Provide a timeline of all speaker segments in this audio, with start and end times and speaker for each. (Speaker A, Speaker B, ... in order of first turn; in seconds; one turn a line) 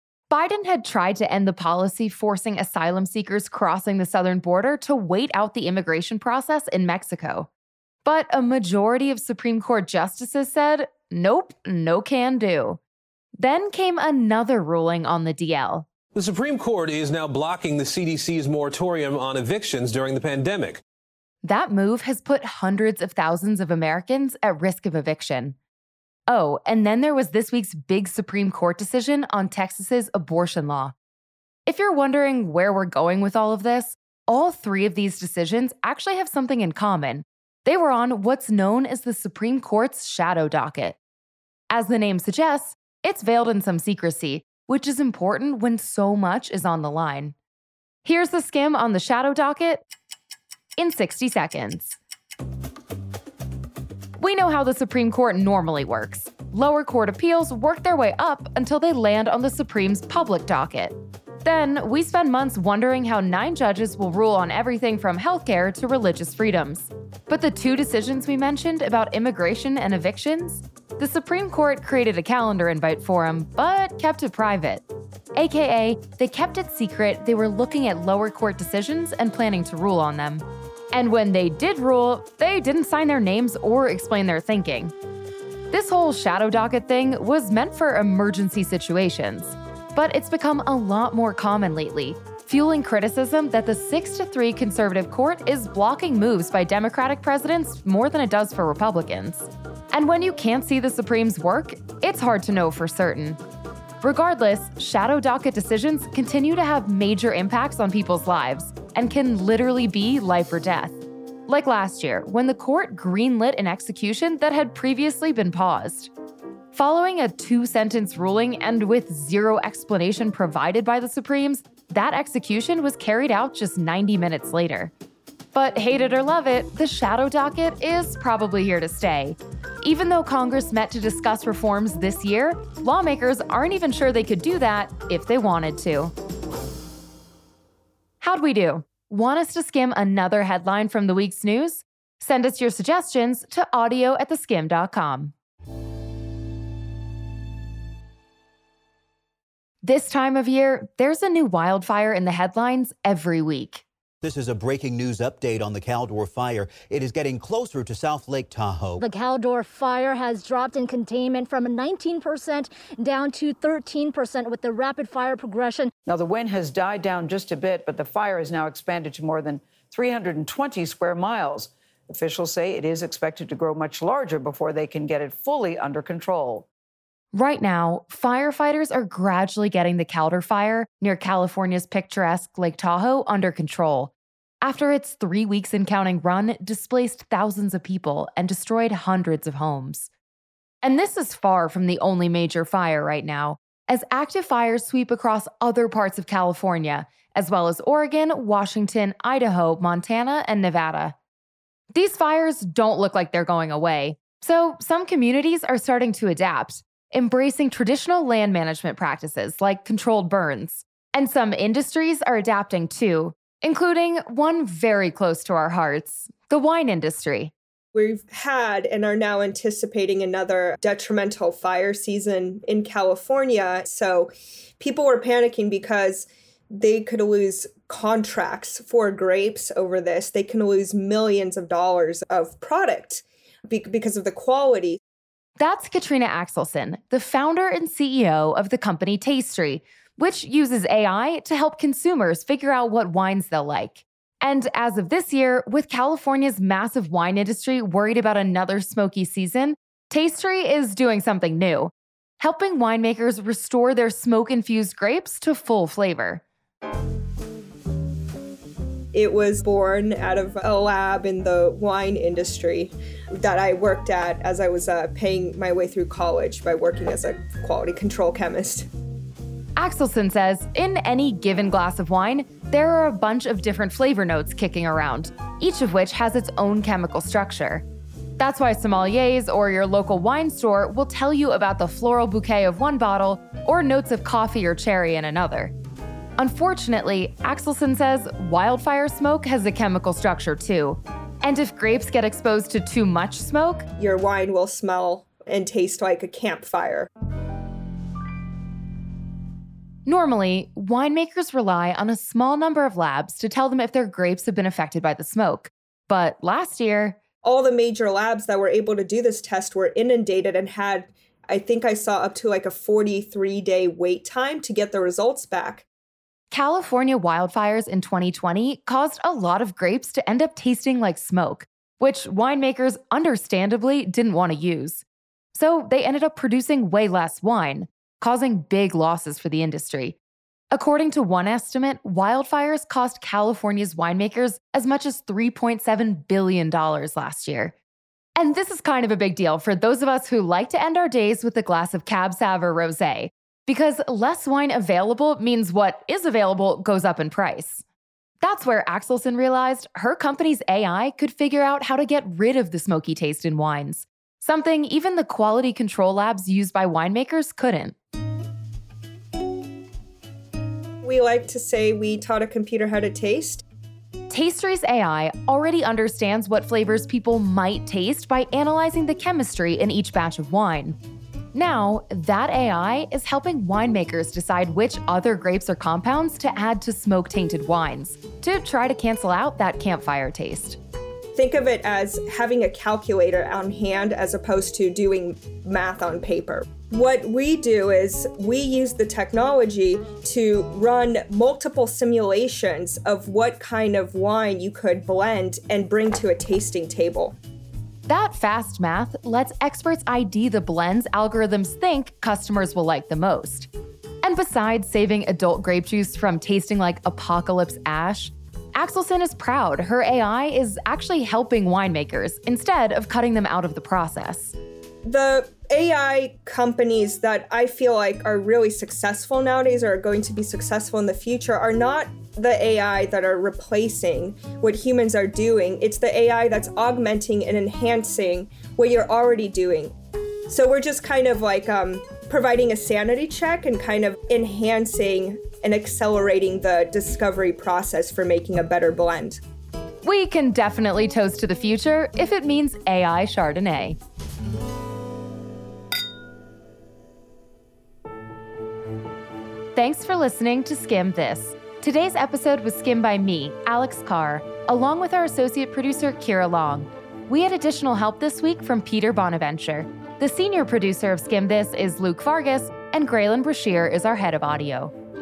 Speaker A: 0.3-7.5
Speaker A: 8.0-12.8
Speaker A: 13.4-15.9
Speaker B: 16.1-20.8
Speaker A: 21.4-25.6
Speaker A: 26.3-30.9
Speaker A: 31.6-41.0
Speaker A: 41.7-47.3
Speaker A: 48.0-49.8
Speaker A: 50.8-52.0
Speaker A: 54.2-74.8
Speaker A: 75.3-84.9
Speaker A: 85.7-103.4
Speaker A: 104.0-116.1
Speaker A: 116.7-124.9
Speaker A: 125.5-136.1
Speaker A: 138.2-145.3
Speaker A: 149.8-153.8
Speaker C: 154.2-159.0
Speaker D: 159.0-165.9
Speaker E: 166.1-176.7
Speaker A: 177.3-190.1
Speaker A: 190.8-201.2
Speaker A: 201.9-217.5
Speaker F: 217.9-235.0
Speaker A: 235.6-256.4
Speaker F: 259.1-268.9
Speaker A: 269.8-277.8
Speaker A: 278.4-285.7
Speaker A: 286.4-293.9
Speaker F: 294.0-297.1
Speaker A: 300.1-307.2
Speaker F: 307.4-315.9
Speaker A: 316.5-330.2
Speaker A: 330.7-337.7
Speaker A: 338.4-347.8
Speaker A: 348.4-357.9
Speaker F: 361.0-363.6
Speaker A: 364.3-371.0
Speaker A: 371.5-380.8
Speaker F: 381.3-397.3
Speaker A: 398.1-403.7
Speaker A: 404.2-414.5
Speaker F: 415.1-429.9
Speaker F: 430.5-439.4
Speaker A: 440.0-444.0
Speaker A: 449.7-464.9